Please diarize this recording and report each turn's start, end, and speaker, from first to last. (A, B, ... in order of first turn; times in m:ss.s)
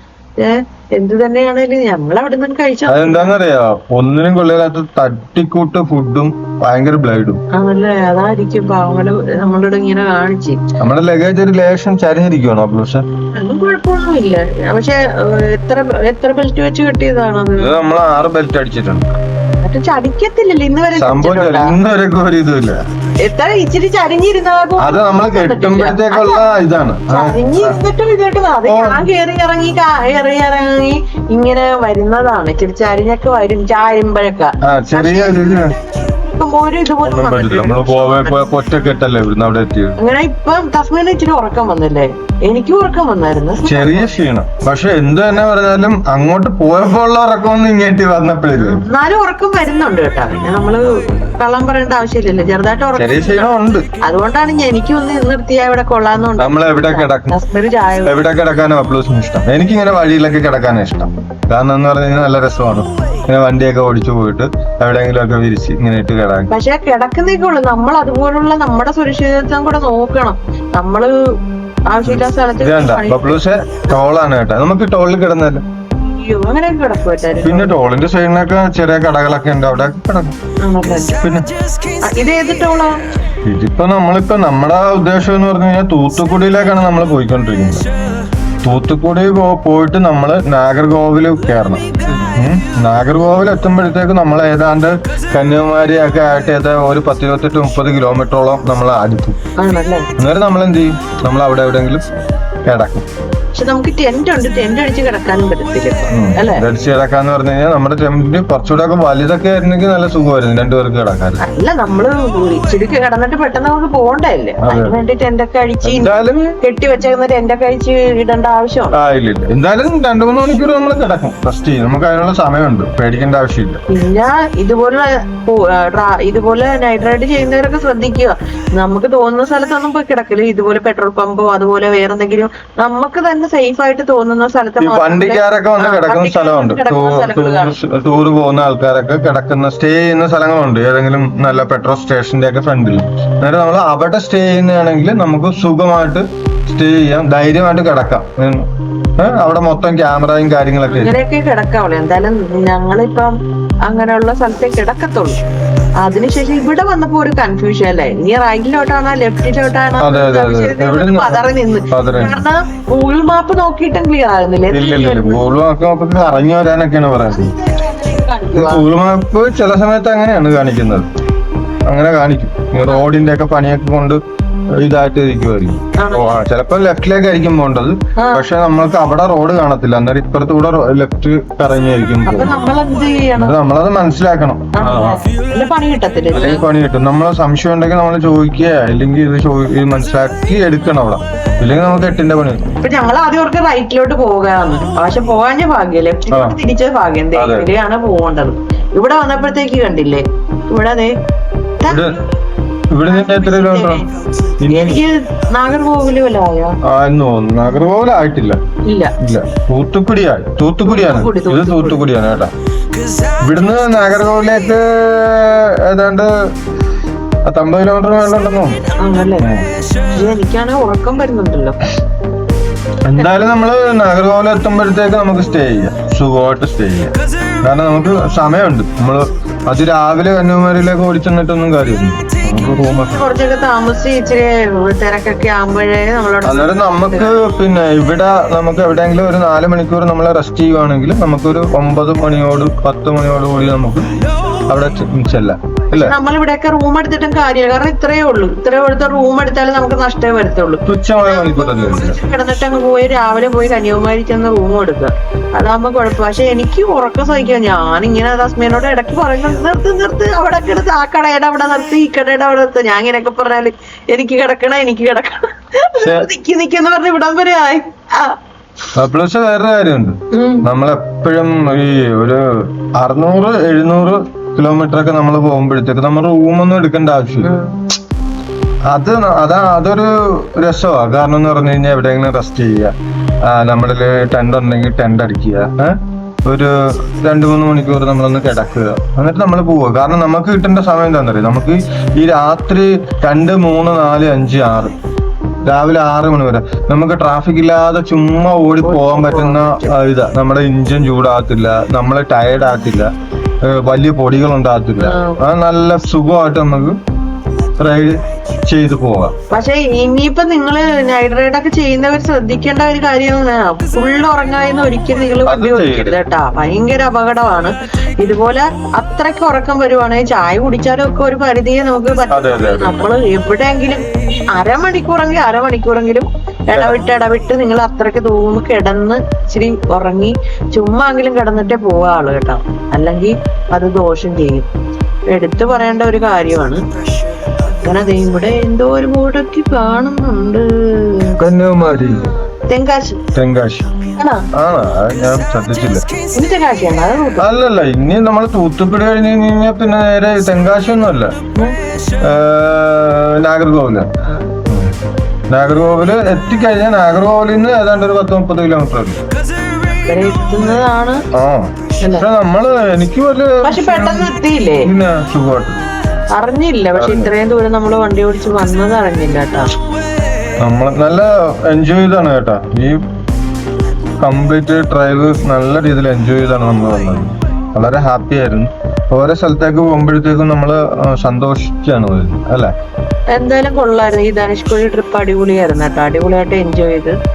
0:00.4-0:03.4 A
0:02.9-0:07.4 B
0:07.5-0:10.6 A
0:10.8-0:13.0 B
0:13.3-0:17.7 A
0:17.6-0:19.1 B
0:19.6-0:21.8 A
0:21.0-0:22.8 B
0:23.2-0:26.5 A
0:24.8-0:27.7 B
0:27.1-0:38.4 A
0:28.6-0:29.0 B
0:34.6-0:35.8 B
0:37.0-0:40.0 B
0:40.0-0:44.2 A
0:43.6-0:48.8 B
0:48.6-0:58.2 A
0:53.0-0:53.9 B
0:56.4-0:57.4 B
0:58.0-1:06.5 B
1:06.5-1:11.2 A
1:11.9-1:13.4 A
1:12.1-1:15.6 B
1:16.0-1:17.8 A
1:17.4-1:20.4 B
1:20.6-1:21.2 A
1:21.1-1:21.5 B
1:22.0-1:23.0 A
1:23.4-1:27.9 B
1:28.6-1:39.4 B
1:39.6-1:40.1 A
1:40.2-1:42.1 B
1:42.7-1:43.0 B
1:43.6-1:46.6 A
1:46.1-1:51.4 B
1:51.4-1:59.0 A
1:54.6-1:55.0 B
1:55.8-1:56.6 B
1:58.9-2:03.8 B
2:03.9-2:17.8 A
2:14.8-2:31.2 B
2:30.9-2:33.3 A
2:33.9-2:35.4 A
2:36.0-2:45.4 A
2:40.0-2:42.4 B
2:44.7-2:47.5 B
2:47.3-2:48.9 A
2:48.5-2:51.1 B
2:51.8-2:54.2 B
2:54.8-3:02.6 B
2:56.0-2:56.3 A
2:58.2-2:58.4 A
3:02.2-3:03.6 A
3:03.4-3:05.2 B
3:04.7-3:06.6 A
3:06.3-3:12.7 B
3:12.8-3:21.1 A
3:16.3-3:16.6 B
3:17.4-3:17.7 B
3:21.8-3:22.1 A
3:21.9-3:22.2 B
3:22.9-3:24.0 B
3:23.1-3:24.1 A
3:24.6-3:25.0 B
3:24.7-3:26.8 A
3:26.8-3:28.6 B
3:28.8-3:29.1 A
3:29.2-3:32.5 B
3:30.8-3:32.1 A
3:33.4-3:36.3 B
3:37.5-3:38.8 B
3:39.0-3:39.5 A
3:39.4-3:39.7 B
3:40.1-3:41.8 A
3:43.0-3:53.2 B
3:53.1-3:57.4 A
3:56.4-4:04.1 B
4:04.7-4:06.2 B
4:05.9-4:28.4 A
4:10.9-4:12.2 B
4:26.0-4:26.3 B
4:29.0-4:37.5 B
4:30.3-4:30.6 A
4:37.4-4:37.8 A
4:38.9-4:55.0 B
4:55.7-5:03.1 B
4:58.8-4:59.9 A
5:03.6-5:07.0 B
5:05.0-5:05.4 A
5:07.8-5:09.3 B
5:09.5-5:24.0 A
5:15.4-5:16.2 B
5:22.3-5:23.0 B
5:24.5-5:34.7 A
5:26.7-5:27.0 B
5:35.3-5:36.8 A
5:37.6-5:43.2 A
5:41.4-5:42.3 B
5:43.3-5:43.9 B
5:44.2-5:44.5 A
5:44.5-5:46.1 B
5:46.3-5:47.5 A
5:47.4-5:51.3 B
5:52.2-5:54.1 B
5:54.7-5:55.0 B
5:55.5-5:59.2 B
6:00.1-6:01.2 A
6:01.3-6:04.3 B
6:02.0-6:02.3 A
6:03.6-6:04.9 A
6:04.8-6:05.8 B
6:06.3-6:09.7 A
6:07.0-6:07.3 B
6:10.6-6:13.0 B
6:14.2-6:22.7 B
6:23.3-6:27.2 A